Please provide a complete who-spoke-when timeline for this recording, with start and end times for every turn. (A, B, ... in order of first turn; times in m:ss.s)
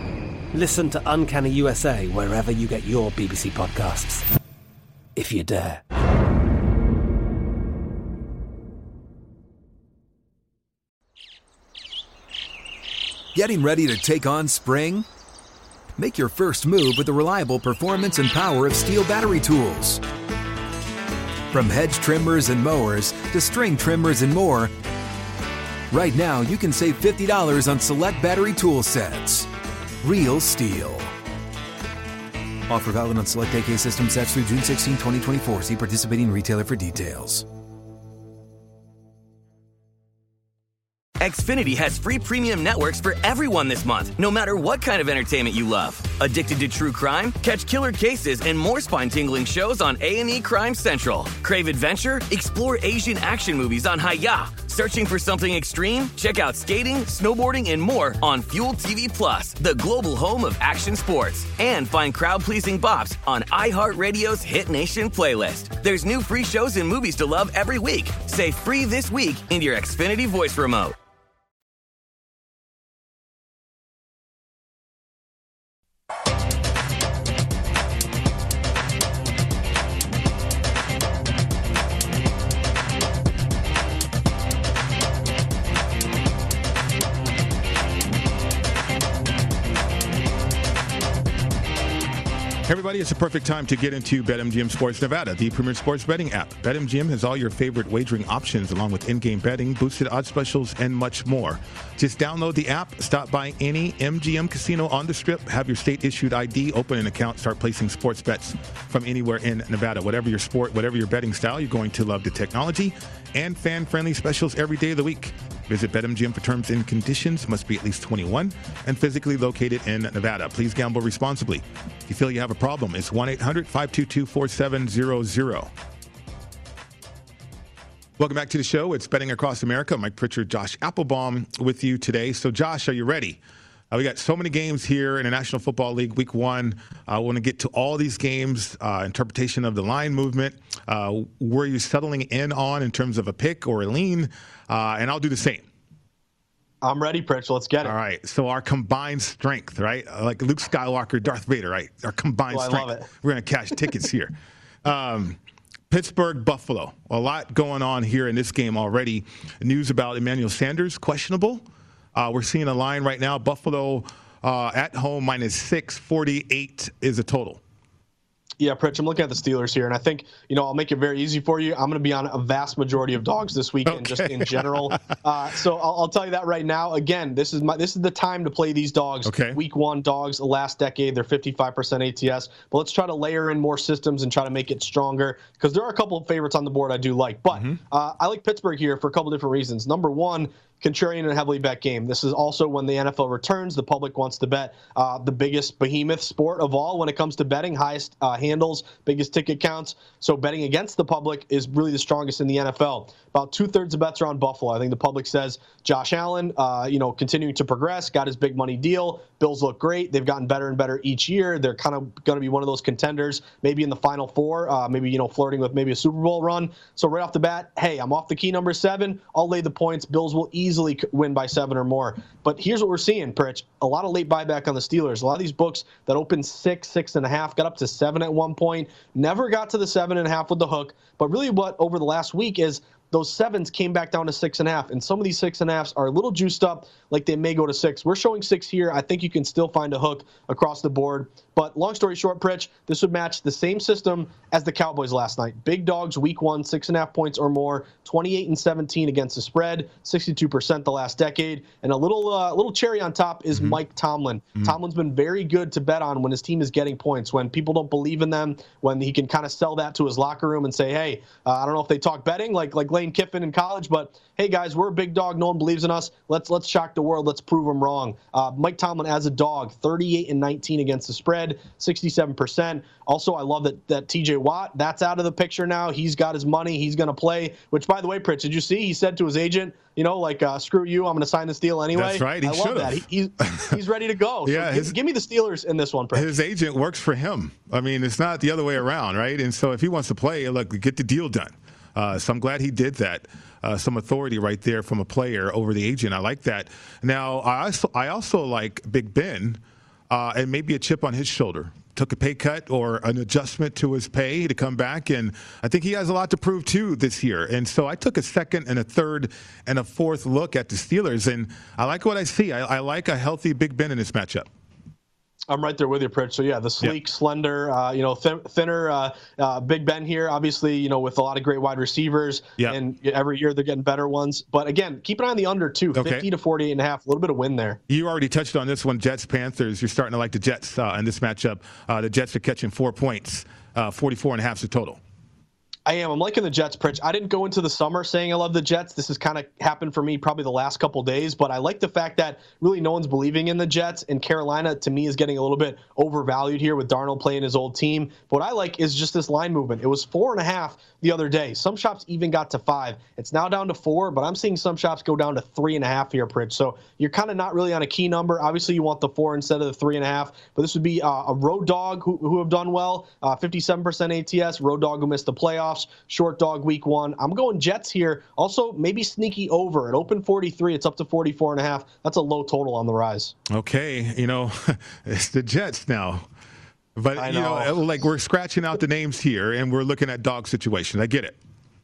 0:00.5-0:04.2 A
0:05.2-0:05.8 A
0:13.3-0:15.1 B
0:16.0-0:20.0 B
0:21.5-0:24.7 B
0:25.9-0:29.5 B
0:30.0-0:31.1 B
0:32.7-0:37.4 B
0:41.2-1:11.0 C
1:32.6-2:05.7 D
2:08.2-2:13.4 D
2:13.9-2:25.7 D
2:26.8-2:27.9 E
2:27.8-2:35.4 D
2:32.5-2:33.1 E
2:35.9-2:47.6 D
2:48.6-4:46.3 E
2:53.9-2:55.0 D
2:59.2-2:59.6 D
4:13.5-4:13.8 D
4:41.9-4:43.8 D
4:44.4-4:45.0 D
4:46.1-5:14.5 D
5:15.5-5:27.8 E
5:25.9-5:26.3 D
5:27.9-5:35.0 D
5:35.9-6:13.3 E
6:13.5-6:16.3 D
6:17.0-6:21.4 D
6:17.2-6:17.8 E